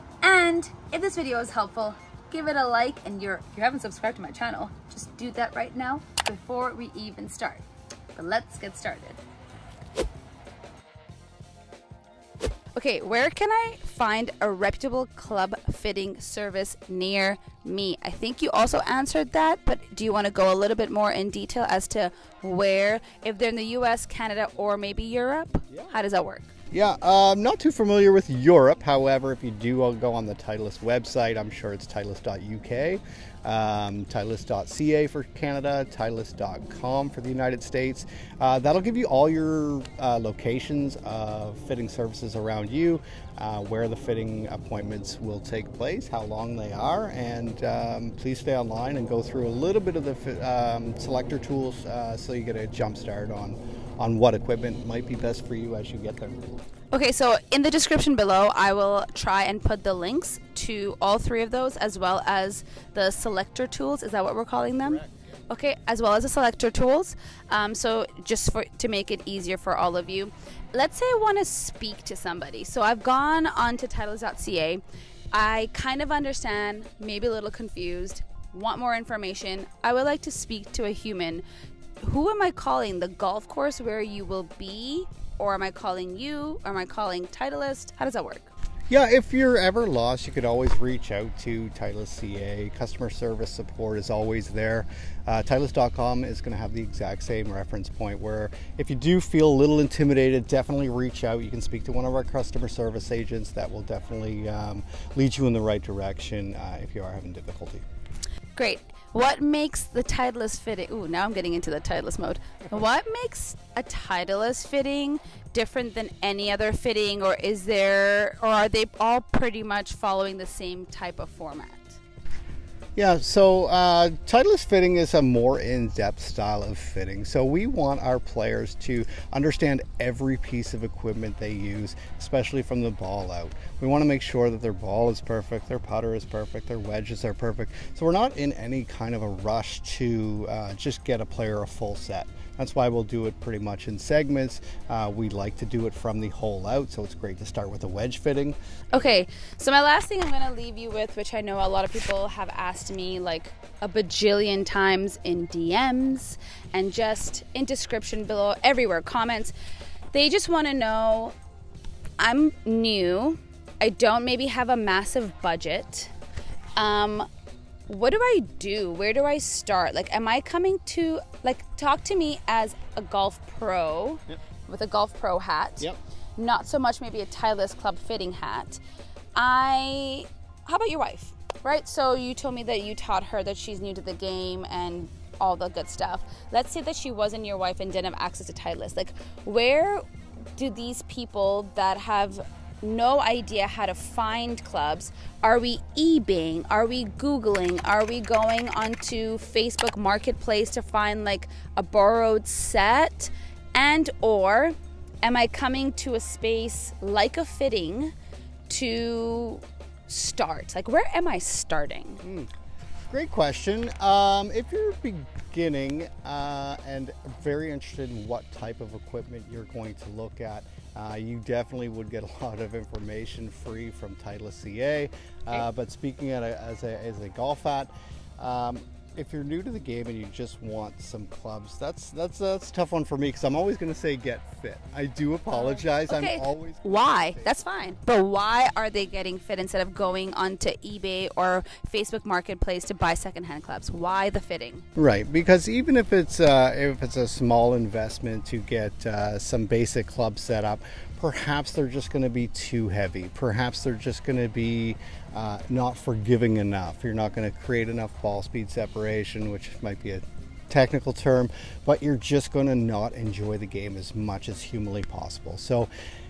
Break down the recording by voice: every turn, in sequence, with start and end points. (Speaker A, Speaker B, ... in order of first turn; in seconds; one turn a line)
Speaker A: 0.2-9.2
Speaker A: 12.8-26.5
Speaker B: 26.7-56.4
Speaker A: 56.9-74.8
Speaker B: 64.8-65.2
Speaker A: 75.3-81.4
Speaker A: 82.0-88.5
Speaker B: 88.9-107.8
Speaker A: 108.5-122.0
Speaker B: 123.0-149.1
Speaker A: 148.9-159.5
Speaker A: 160.1-161.3
Speaker A: 162.2-166.1
Speaker A: 166.8-167.3
Speaker A: 167.9-178.8
Speaker A: 179.4-190.1
Speaker A: 190.6-208.1
Speaker A: 208.7-212.2
Speaker B: 212.2-212.5
Speaker B: 213.1-237.6
Speaker A: 235.5-244.8
Speaker B: 245.0-265.9